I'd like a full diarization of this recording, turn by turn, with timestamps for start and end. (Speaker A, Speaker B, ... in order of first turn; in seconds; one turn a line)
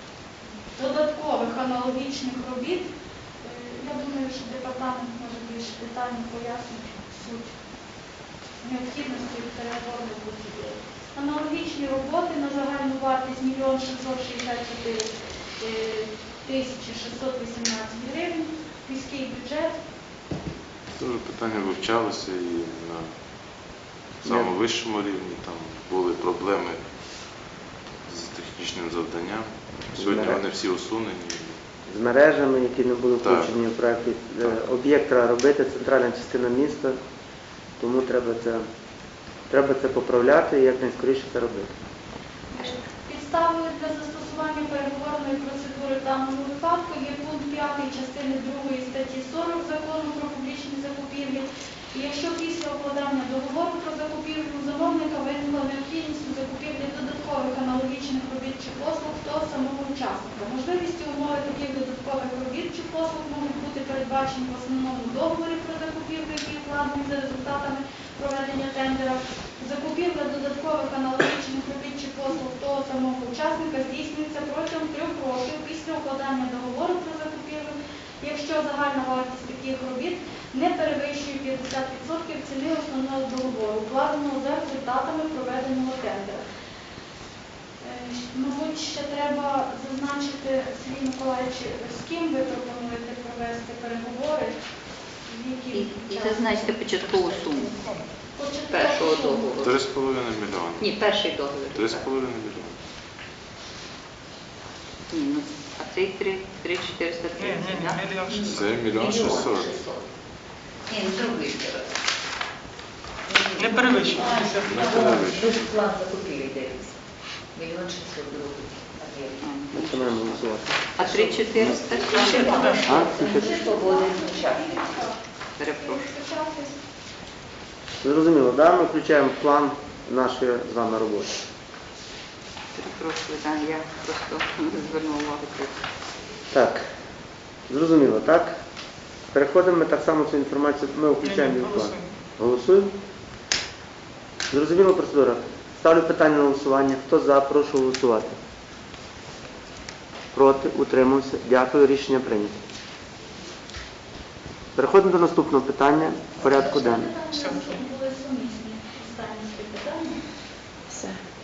Speaker A: 0.8-2.9
Speaker A: 3.4-7.5
Speaker A: 8.6-19.8
Speaker B: 21.0-23.1
Speaker C: 24.2-24.5
Speaker B: 24.2-26.8
Speaker B: 28.1-31.6
Speaker C: 30.0-30.4
Speaker C: 31.9-37.0
Speaker B: 33.2-33.5
Speaker C: 37.8-38.6
Speaker C: 39.5-41.7
Speaker A: 42.5-86.4
Speaker A: 87.8-94.5
Speaker A: 95.3-97.8
Speaker D: 95.7-97.7
Speaker A: 98.3-99.7
Speaker D: 98.7-99.8
Speaker B: 99.6-101.0
Speaker D: 100.8-102.0
Speaker B: 101.7-102.8
Speaker D: 105.1-108.2
Speaker E: 107.4-108.7
Speaker F: 108.4-110.0
Speaker B: 108.4-109.9
Speaker D: 110.9-111.8
Speaker F: 111.2-111.7
Speaker F: 113.3-113.6
Speaker E: 113.6-115.2
Speaker F: 114.2-116.9
Speaker B: 114.5-115.8
Speaker F: 117.5-119.4
Speaker D: 119.4-120.3
Speaker C: 119.7-120.8
Speaker D: 121.0-123.0
Speaker A: 121.9-126.8
Speaker E: 122.2-123.3
Speaker F: 122.4-124.9
Speaker C: 122.9-123.6
Speaker D: 125.6-126.1
Speaker C: 128.0-131.3
Speaker D: 132.8-135.7
Speaker C: 136.5-136.8
Speaker C: 137.7-138.6
Speaker C: 139.3-142.9
Speaker E: 141.2-142.0
Speaker C: 144.5-148.4
Speaker C: 150.3-152.6
Speaker C: 154.8-157.1
Speaker A: 156.4-160.2